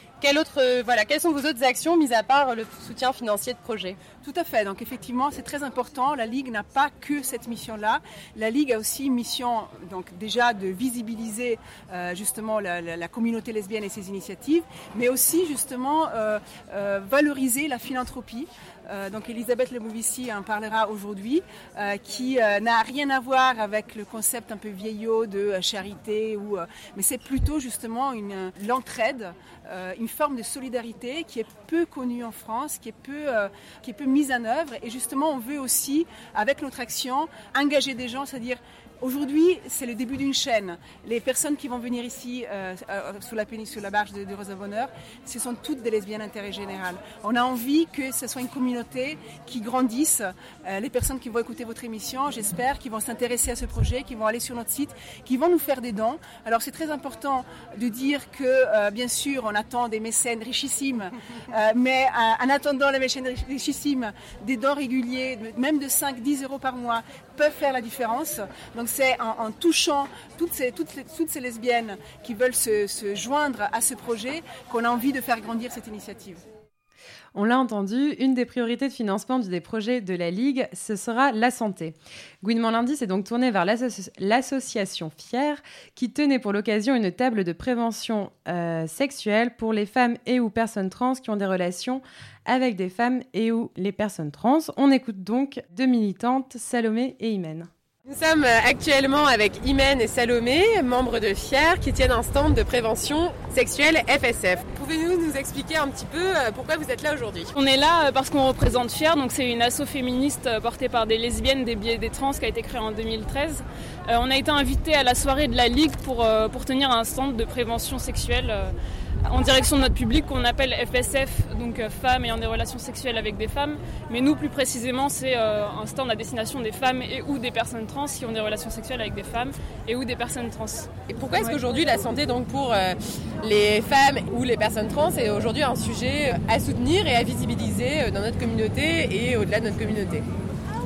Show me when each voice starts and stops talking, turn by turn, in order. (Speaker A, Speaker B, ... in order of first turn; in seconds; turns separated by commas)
Speaker A: 0.2-4.0, Speaker B: 4.2-76.4, Speaker C: 77.3-97.7, Speaker A: 98.0-107.5, Speaker D: 107.5-118.7, Speaker D: 119.3-130.9, Speaker A: 131.1-140.3